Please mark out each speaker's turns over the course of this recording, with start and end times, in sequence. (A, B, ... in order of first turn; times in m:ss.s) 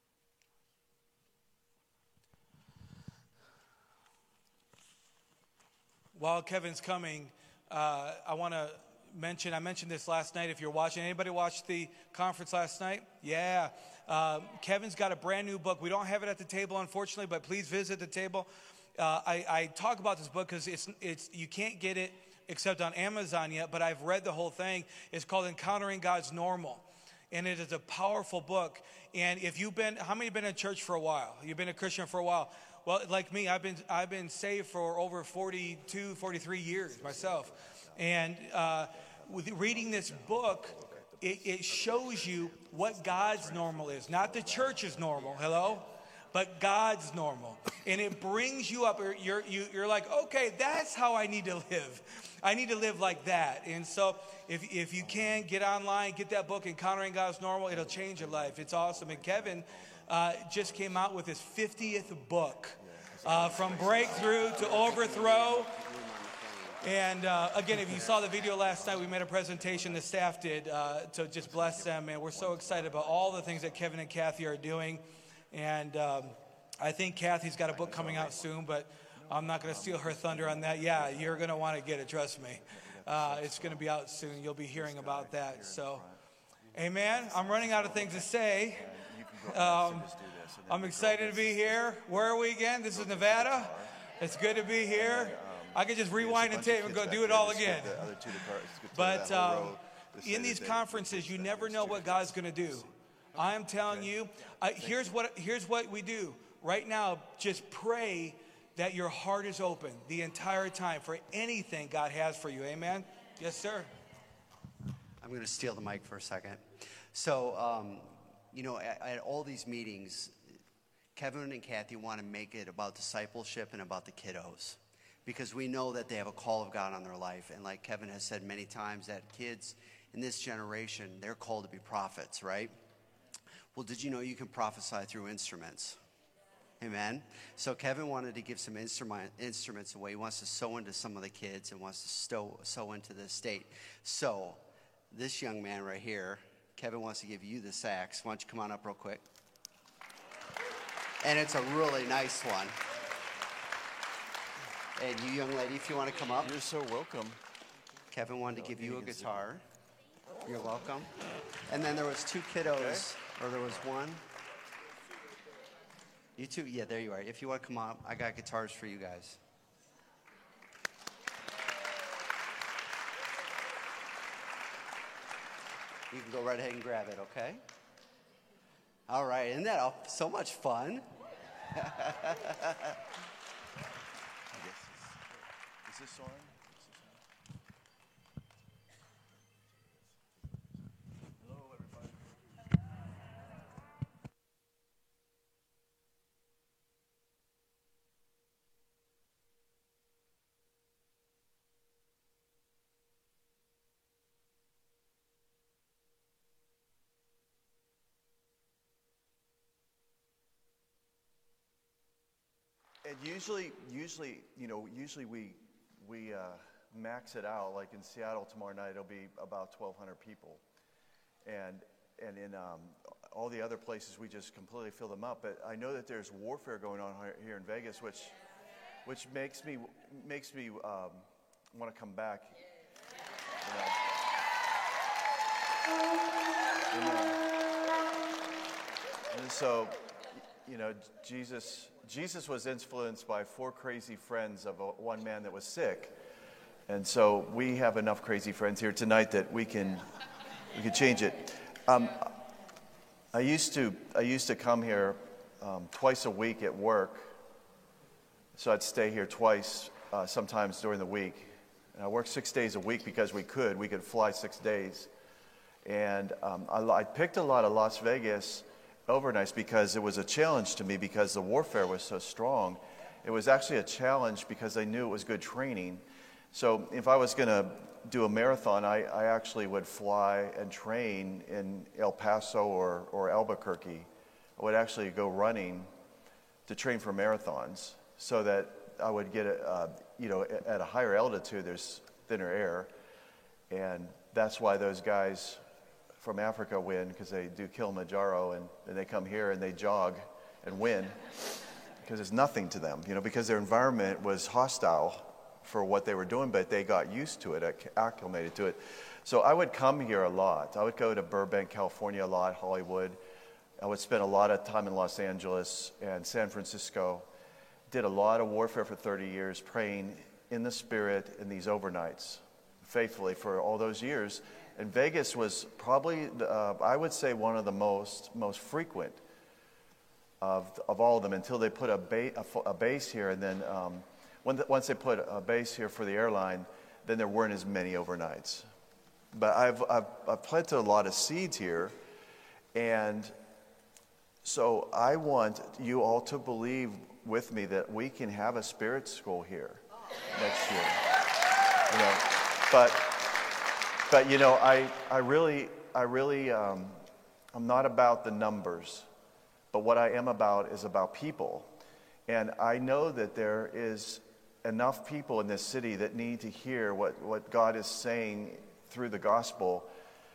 0:06.1-1:05.7 A
0:36.9-0:38.2 B
0:38.9-0:45.7 B
0:55.0-0:55.5 B
0:57.7-1:01.0 B
1:01.8-1:02.2 B
1:02.8-1:05.2 B
1:03.5-1:06.9 C
1:06.8-1:26.0 A
1:07.7-1:10.1 B
1:11.4-1:14.1 B
1:17.7-1:18.6 B
1:19.2-1:21.7 B
1:22.5-1:26.2 B
1:26.7-1:28.9 A
1:26.9-1:32.4 B
1:29.5-1:30.1 A
1:30.7-1:38.3 A
1:32.9-1:33.9 B
1:34.9-1:44.2 B
1:38.9-1:53.9 A
1:44.8-1:45.2 B
1:55.2-2:00.4 C
2:01.2-2:12.7 C
2:13.7-2:16.0 C
2:16.8-2:29.2 C
2:31.2-2:32.8 C
2:35.0-2:36.6 C
2:36.4-2:37.4 B
2:38.1-2:39.6 C
2:38.5-2:39.5 B
2:40.4-2:41.2 C
2:41.7-2:44.2 C
2:42.6-2:43.0 B
2:46.4-2:49.4 C
2:56.1-2:57.6 C
2:59.1-3:01.0 C
3:01.8-3:02.9 C
3:04.6-3:07.2 B
3:11.4-3:12.2 B
3:33.0-3:40.6 B
3:41.4-3:48.4 B
3:49.0-3:52.6 B
3:53.6-3:54.0 B
3:56.9-3:57.4 B
3:59.3-4:00.0 B
4:00.6-4:06.2 B
4:06.9-4:10.1 B
4:10.7-4:12.3 B
4:13.3-4:17.3 B
4:18.6-4:25.1 B
4:25.8-4:45.9 B
4:46.7-4:52.9 B
4:53.7-4:55.6 B
4:56.2-5:01.2 B
5:02.0-5:13.2 B
5:13.8-5:17.2 B
5:17.9-5:29.2 B
5:30.4-5:38.6 B
5:39.3-5:42.0 B
5:42.7-5:43.3 B
5:44.4-5:51.0 B
5:51.9-5:53.3 B
5:54.1-5:57.0 B
5:57.5-5:59.1 B
5:59.7-6:01.7 B
6:02.3-6:09.9 B